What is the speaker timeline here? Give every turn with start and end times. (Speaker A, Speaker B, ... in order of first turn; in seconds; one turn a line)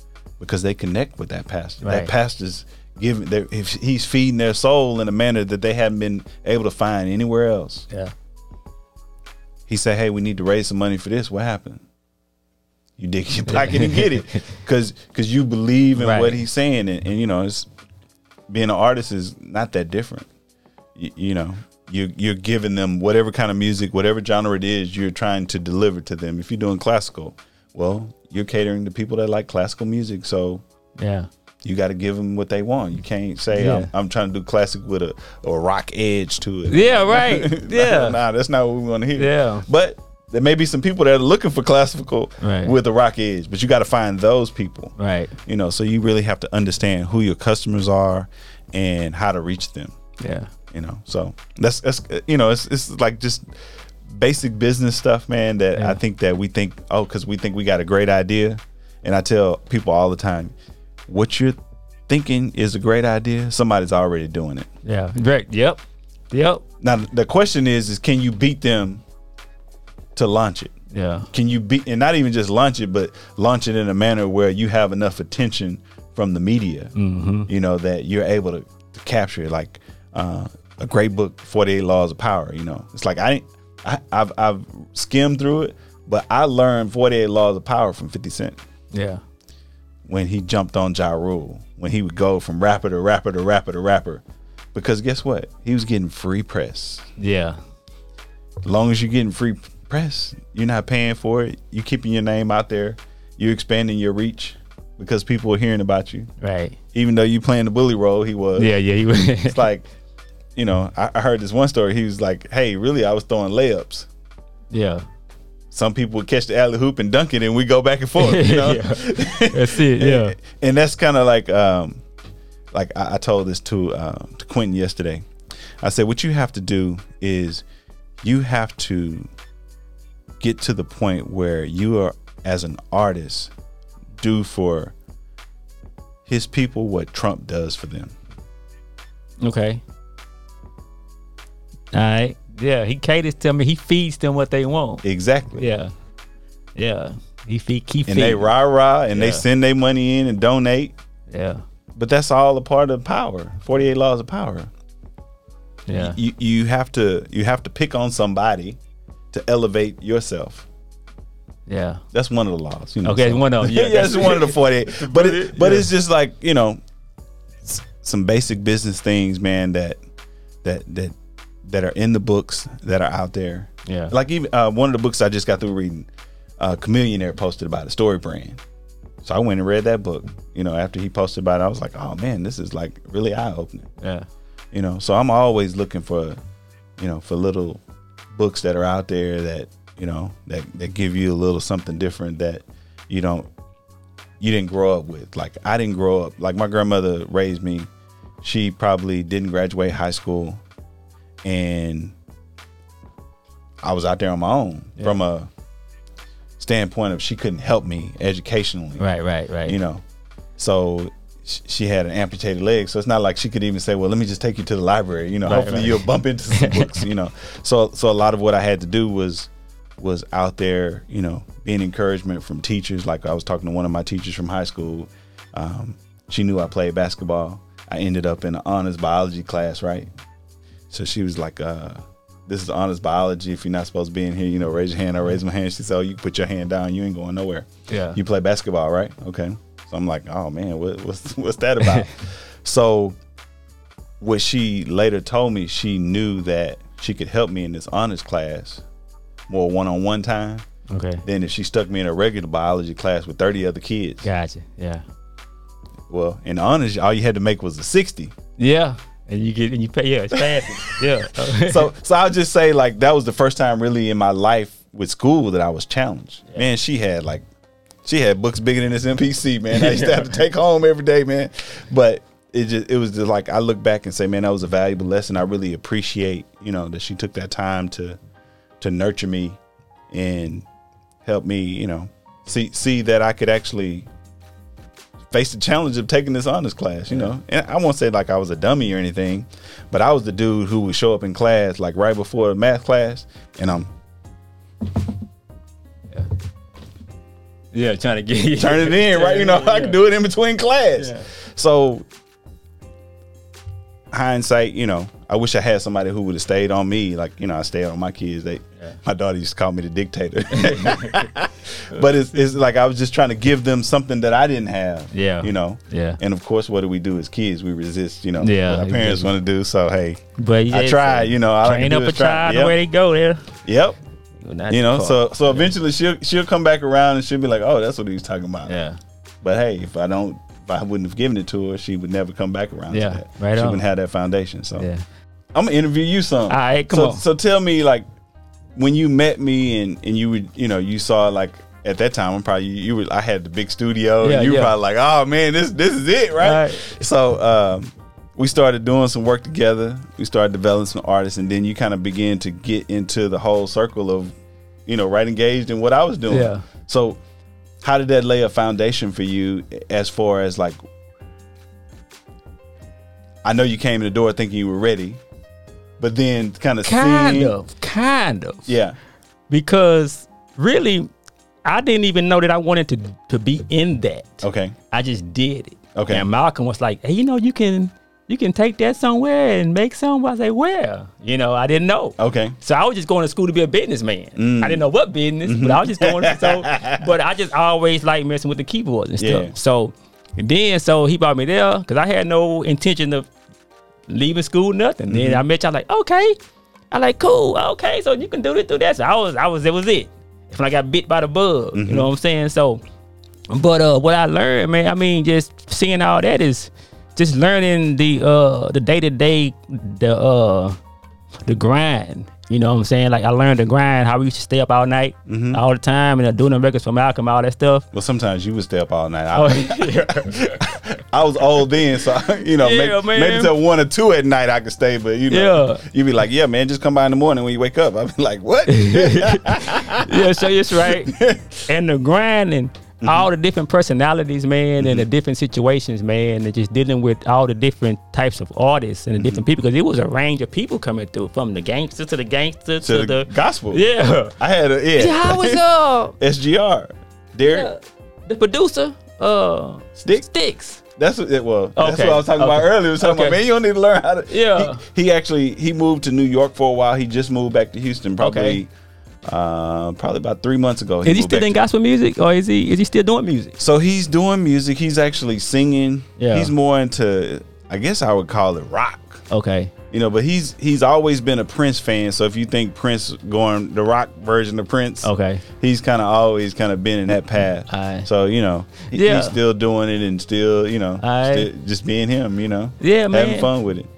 Speaker A: 0.4-7.9
Speaker B: 1.8-2.1
Speaker A: 9.7-11.8
Speaker A: 13.0-17.7
Speaker B: 13.5-14.4
Speaker B: 16.0-16.4
Speaker A: 18.5-20.3
Speaker A: 20.9-30.6
Speaker B: 31.0-31.3
Speaker A: 31.6-44.9
Speaker B: 33.5-33.9
Speaker B: 36.7-38.2
Speaker B: 39.2-39.6
Speaker B: 42.4-42.7
Speaker B: 45.0-45.3
Speaker A: 45.4-49.9
Speaker B: 50.2-50.5
Speaker A: 50.7-53.4
Speaker A: 54.1-60.5
Speaker A: 61.1-61.5
Speaker A: 62.1-64.7
Speaker B: 64.8-66.6
Speaker A: 66.8-69.0
Speaker A: 70.2-70.7
Speaker B: 70.9-71.3
Speaker A: 71.3-76.9
Speaker B: 76.9-77.5
Speaker A: 77.5-88.6
Speaker B: 88.9-89.2
Speaker A: 90.1-94.2
Speaker A: 94.7-97.1
Speaker B: 97.2-97.6
Speaker A: 98.6-106.3
Speaker B: 106.4-106.8
Speaker A: 106.9-108.7
Speaker B: 108.6-109.6
Speaker A: 109.5-109.9
Speaker A: 110.5-114.1
Speaker B: 114.7-115.0
Speaker A: 115.7-122.0
Speaker B: 118.2-120.4
Speaker A: 122.7-125.2
Speaker A: 125.8-127.6
Speaker A: 128.2-129.3
Speaker A: 130.4-133.5
Speaker A: 134.2-134.9
Speaker A: 136.3-138.2
Speaker B: 139.4-139.8
Speaker B: 141.9-145.0
Speaker A: 145.0-145.7
Speaker B: 145.6-145.9
Speaker B: 146.8-148.5
Speaker A: 148.1-150.9
Speaker B: 149.1-149.4
Speaker B: 151.3-151.6
Speaker A: 151.9-154.7
Speaker B: 155.9-156.2
Speaker A: 155.9-158.8
Speaker A: 159.3-160.7
Speaker B: 161.7-162.0
Speaker A: 162.1-166.8
Speaker B: 163.0-165.9
Speaker A: 167.7-170.0
Speaker A: 170.6-171.1
Speaker A: 171.7-176.1
Speaker B: 173.8-174.1
Speaker A: 176.6-178.6
Speaker A: 179.2-183.9
Speaker B: 184.0-184.2
Speaker A: 184.7-186.4
Speaker A: 187.0-187.8
Speaker A: 188.3-193.5
Speaker A: 194.4-197.9
Speaker A: 198.4-200.6
Speaker A: 201.4-202.2
Speaker A: 203.8-205.5
Speaker A: 206.6-209.0
Speaker B: 209.0-209.8
Speaker A: 209.6-210.0
Speaker A: 210.6-230.1
Speaker B: 215.4-216.9
Speaker A: 230.9-243.2
Speaker B: 237.9-238.2
Speaker B: 241.8-242.1
Speaker A: 244.2-248.8
Speaker A: 249.5-250.6
Speaker B: 250.9-251.2
Speaker A: 251.2-254.3
Speaker B: 254.2-255.0
Speaker A: 256.1-258.3
Speaker B: 258.6-261.9
Speaker A: 260.3-267.4
Speaker A: 268.0-278.2
Speaker B: 269.7-270.4
Speaker A: 278.8-279.6
Speaker A: 280.1-280.6
Speaker A: 281.2-284.1
Speaker A: 285.3-293.9
Speaker B: 297.7-300.0
Speaker A: 298.6-302.1
Speaker B: 301.0-301.2
Speaker A: 304.1-322.8
Speaker B: 310.5-311.3
Speaker B: 315.1-316.2
Speaker B: 318.4-319.3
Speaker B: 320.4-323.4
Speaker A: 323.6-324.0
Speaker B: 324.4-325.7
Speaker A: 324.7-328.8
Speaker B: 328.7-329.0
Speaker A: 329.4-334.9
Speaker B: 332.9-333.8
Speaker B: 334.8-335.0
Speaker A: 335.5-338.0
Speaker B: 336.5-337.2
Speaker A: 338.8-354.3
Speaker B: 344.2-344.7
Speaker B: 346.4-347.0
Speaker A: 354.9-357.2
Speaker B: 356.3-356.6
Speaker A: 357.8-360.8
Speaker A: 363.4-365.2
Speaker A: 366.0-367.5
Speaker B: 366.8-368.7
Speaker A: 368.7-368.9
Speaker B: 369.5-371.1
Speaker B: 371.6-393.3
Speaker A: 374.4-374.7
Speaker A: 375.9-376.2
Speaker A: 382.2-382.5
Speaker A: 384.4-384.8
Speaker A: 385.4-387.1
Speaker A: 389.2-389.5
Speaker B: 394.1-396.3
Speaker A: 395.1-395.4
Speaker B: 396.9-402.8
Speaker A: 401.7-402.1
Speaker B: 403.5-410.8
Speaker B: 411.4-417.9
Speaker A: 415.3-415.6
Speaker A: 417.9-431.7
Speaker B: 419.3-420.6
Speaker B: 422.6-423.5
Speaker B: 425.3-425.8
Speaker B: 428.7-431.1
Speaker B: 431.7-444.3
Speaker A: 433.0-433.3
Speaker A: 434.8-435.1
Speaker A: 439.2-439.4
Speaker A: 442.8-443.8
Speaker A: 444.4-445.6
Speaker B: 444.9-446.1
Speaker A: 446.2-447.7
Speaker B: 447.4-450.8
Speaker A: 451.0-458.7
Speaker B: 451.8-453.4
Speaker B: 454.3-454.8
Speaker B: 458.2-458.6
Speaker A: 459.3-461.6
Speaker B: 461.0-463.6
Speaker A: 463.6-469.2
Speaker B: 466.2-466.5
Speaker B: 469.3-469.7
Speaker A: 469.9-475.1
Speaker B: 475.0-475.4
Speaker A: 475.6-483.9
Speaker B: 477.7-478.1
Speaker B: 478.9-479.4
Speaker B: 481.0-481.5
Speaker B: 482.8-483.5